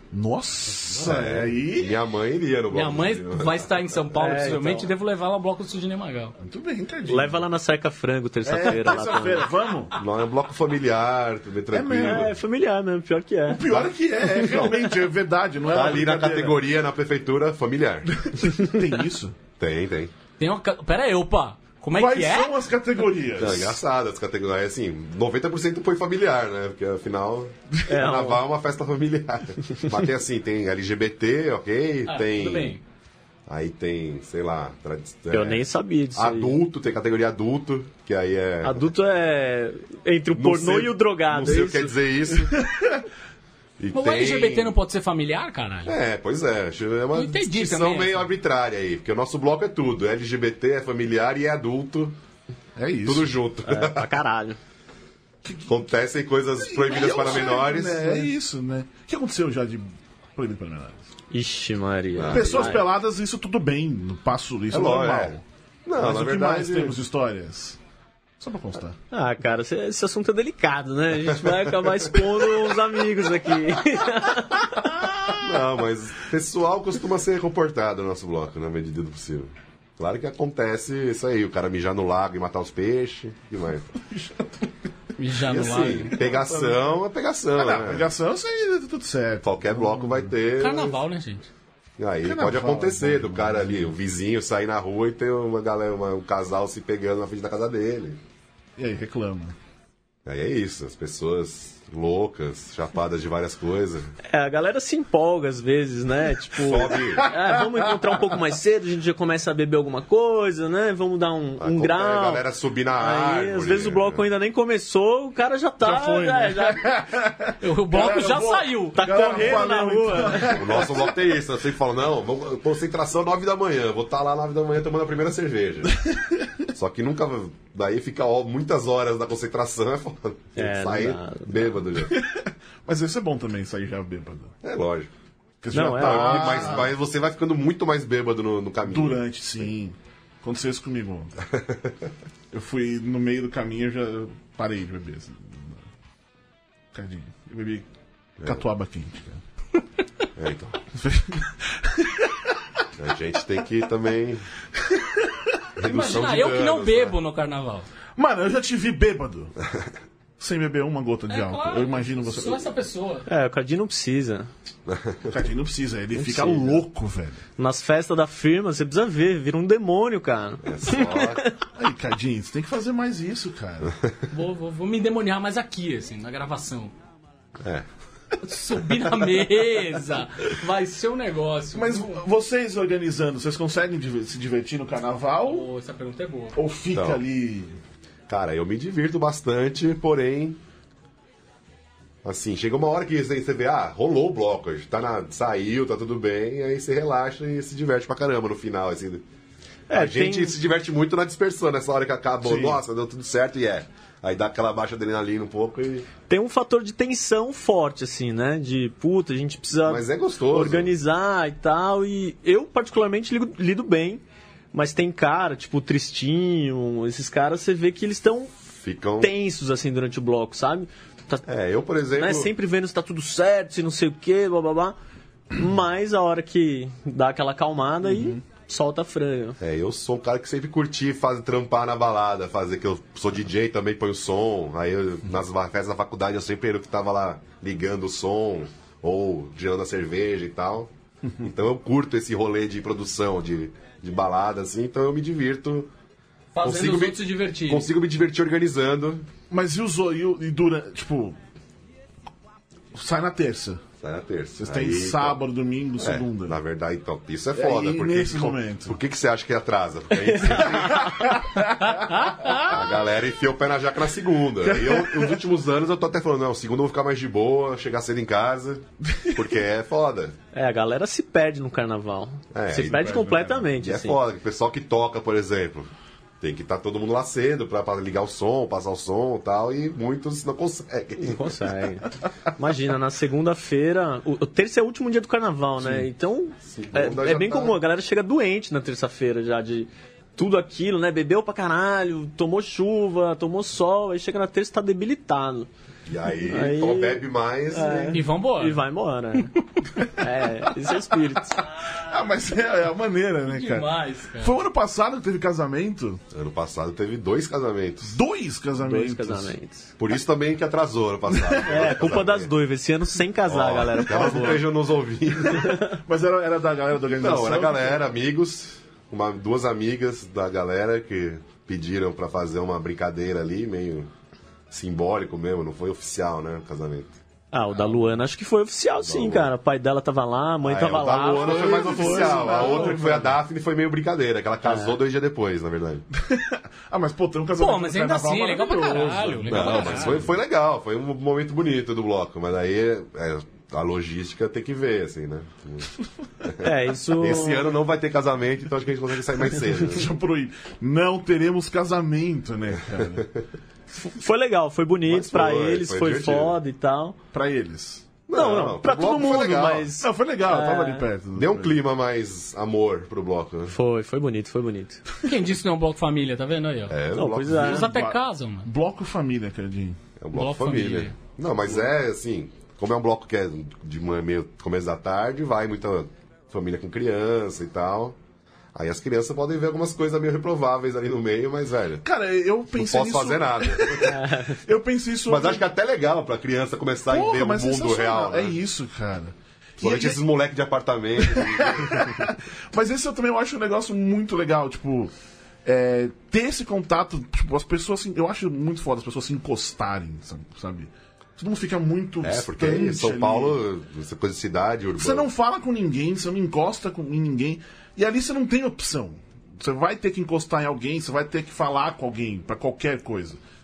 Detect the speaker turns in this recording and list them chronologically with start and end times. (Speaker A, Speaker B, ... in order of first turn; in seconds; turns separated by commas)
Speaker A: 0.1-2.0, Speaker B: 0.8-4.0, Speaker C: 2.7-6.3, Speaker D: 4.1-4.9, Speaker A: 6.4-7.4, Speaker D: 7.0-9.5, Speaker A: 8.4-9.9, Speaker B: 9.9-12.3, Speaker A: 11.7-12.3, Speaker D: 11.9-14.7, Speaker A: 13.5-16.6, Speaker B: 14.4-14.9, Speaker B: 15.6-18.1, Speaker A: 18.2-19.4, Speaker B: 19.6-20.1, Speaker C: 20.4-22.5, Speaker A: 21.9-23.8, Speaker B: 23.4-32.8, Speaker D: 27.9-28.4, Speaker C: 32.0-32.8, Speaker B: 33.5-38.9, Speaker D: 35.3-36.5, Speaker D: 38.6-42.0, Speaker B: 40.3-42.6, Speaker A: 42.6-43.0, Speaker B: 43.8-44.7, Speaker C: 43.9-45.9, Speaker B: 45.9-52.2, Speaker C: 47.1-48.3, Speaker A: 52.8-53.4, Speaker B: 53.0-54.2, Speaker D: 53.6-54.6, Speaker A: 55.4-55.8, Speaker B: 55.6-58.3, Speaker A: 56.6-61.0, Speaker D: 61.3-62.9, Speaker B: 62.1-62.8, Speaker A: 62.3-65.4, Speaker B: 64.7-67.0, Speaker A: 66.0-67.8, Speaker A: 68.4-69.0, Speaker D: 69.1-75.0, Speaker B: 71.3-72.2, Speaker B: 75.4-83.9, Speaker A: 83.9-84.7, Speaker C: 85.2-86.2, Speaker B: 85.5-88.1, Speaker A: 85.7-87.0, Speaker A: 87.6-90.3, Speaker B: 89.4-91.0, Speaker C: 90.6-91.5, Speaker B: 92.0-98.2, Speaker A: 92.2-93.9, Speaker A: 98.8-99.5, Speaker B: 100.2-104.1, Speaker D: 104.3-112.5, Speaker B: 106.6-107.3, Speaker A: 107.1-108.3, Speaker B: 111.6-114.2, Speaker D: 113.0-116.9, Speaker A: 115.8-121.1, Speaker C: 117.6-119.4, Speaker D: 118.9-120.8, Speaker B: 120.4-126.0, Speaker B: 126.7-132.2, Speaker D: 130.6-131.7, Speaker A: 132.0-134.5, Speaker B: 134.6-135.1, Speaker A: 135.6-136.9, Speaker D: 135.7-136.8, Speaker B: 135.9-139.2, Speaker A: 138.8-141.4, Speaker B: 141.5-142.0, Speaker A: 142.5-145.8, Speaker A: 146.9-147.9, Speaker B: 148.4-148.6, Speaker A: 148.4-149.4, Speaker B: 150.3-150.8, Speaker A: 150.9-152.6, Speaker B: 153.0-154.5, Speaker A: 154.8-155.4, Speaker B: 155.8-157.2, Speaker C: 155.8-157.9, Speaker A: 158.2-159.5, Speaker A: 160.4-162.7, Speaker C: 161.3-163.3, Speaker D: 163.3-164.5, Speaker B: 164.9-165.4, Speaker A: 165.2-167.4, Speaker D: 166.1-166.8, Speaker D: 167.6-171.6, Speaker B: 170.6-171.4, Speaker A: 171.7-174.0, Speaker C: 174.3-176.9, Speaker B: 177.6-177.8, Speaker C: 178.4-182.2, Speaker A: 181.7-185.7, Speaker C: 185.4-186.6, Speaker A: 186.5-187.7, Speaker B: 186.9-187.2, Speaker B: 188.3-190.6, Speaker B: 192.2-199.2, Speaker D: 199.9-200.6, Speaker B: 199.9-206.1, Speaker A: 202.4-202.8, Speaker D: 206.3-214.2, Speaker B: 209.8-210.9, Speaker D: 214.7-218.5, Speaker B: 218.7-219.3, Speaker D: 219.2-221.4, Speaker B: 221.4-222.5, Speaker D: 222.1-224.9, Speaker D: 225.5-229.6, Speaker A: 228.0-228.4, Speaker B: 229.6-245.9, Speaker C: 246.5-247.9, Speaker B: 246.6-249.3, Speaker A: 249.5-251.4, Speaker A: 252.9-253.8, Speaker B: 254.0-255.4, Speaker A: 254.6-256.6, Speaker B: 256.0-261.4, Speaker A: 257.5-259.0, Speaker D: 260.5-261.0, Speaker A: 260.7-262.6, Speaker C: 262.4-262.7, Speaker B: 262.6-270.4, Speaker A: 264.7-265.3, Speaker D: 270.5-274.2, Speaker B: 272.5-281.6, Speaker A: 272.7-273.6, Speaker D: 281.2-295.7, Speaker B: 286.6-287.8, Speaker B: 296.1-298.2, Speaker D: 296.5-299.5, Speaker C: 298.1-298.8, Speaker A: 299.8-301.2, Speaker D: 300.1-301.7, Speaker A: 301.8-306.2, Speaker C: 303.4-304.6, Speaker B: 306.3-308.2, Speaker A: 308.0-309.5, Speaker D: 308.8-309.9, Speaker B: 310.0-312.5, Speaker D: 311.6-314.7, Speaker B: 313.4-315.9, Speaker A: 314.1-314.5, Speaker D: 315.5-315.9, Speaker A: 315.8-318.1, Speaker B: 317.2-324.1, Speaker B: 324.7-327.1, Speaker D: 327.5-332.6, Speaker B: 329.0-329.5, Speaker B: 330.6-336.1, Speaker A: 331.3-333.4, Speaker C: 332.6-332.9, Speaker D: 334.6-335.0, Speaker A: 336.1-340.3, Speaker C: 337.6-340.2, Speaker B: 339.5-350.1, Speaker D: 346.6-347.7, Speaker A: 349.7-353.3, Speaker B: 353.0-353.2, Speaker D: 353.9-357.2, Speaker B: 355.0-356.6, Speaker A: 357.3-358.1, Speaker B: 358.3-359.9, Speaker D: 358.3-361.1, Speaker A: 360.0-361.8, Speaker B: 361.3-363.7, Speaker D: 363.7-365.0, Speaker C: 365.2-367.0, Speaker B: 366.9-367.9, Speaker D: 367.1-367.9, Speaker C: 367.5-368.7, Speaker A: 367.5-370.0, Speaker B: 370.2-378.2, Speaker C: 370.3-371.1, Speaker B: 378.7-382.0, Speaker A: 382.0-385.6, Speaker B: 382.7-384.2, Speaker D: 384.0-384.6, Speaker B: 385.3-388.6, Speaker A: 387.1-390.2, Speaker B: 389.8-392.2, Speaker A: 391.2-395.1, Speaker A: 395.6-403.6, Speaker B: 402.2-405.3, Speaker A: 405.0-413.4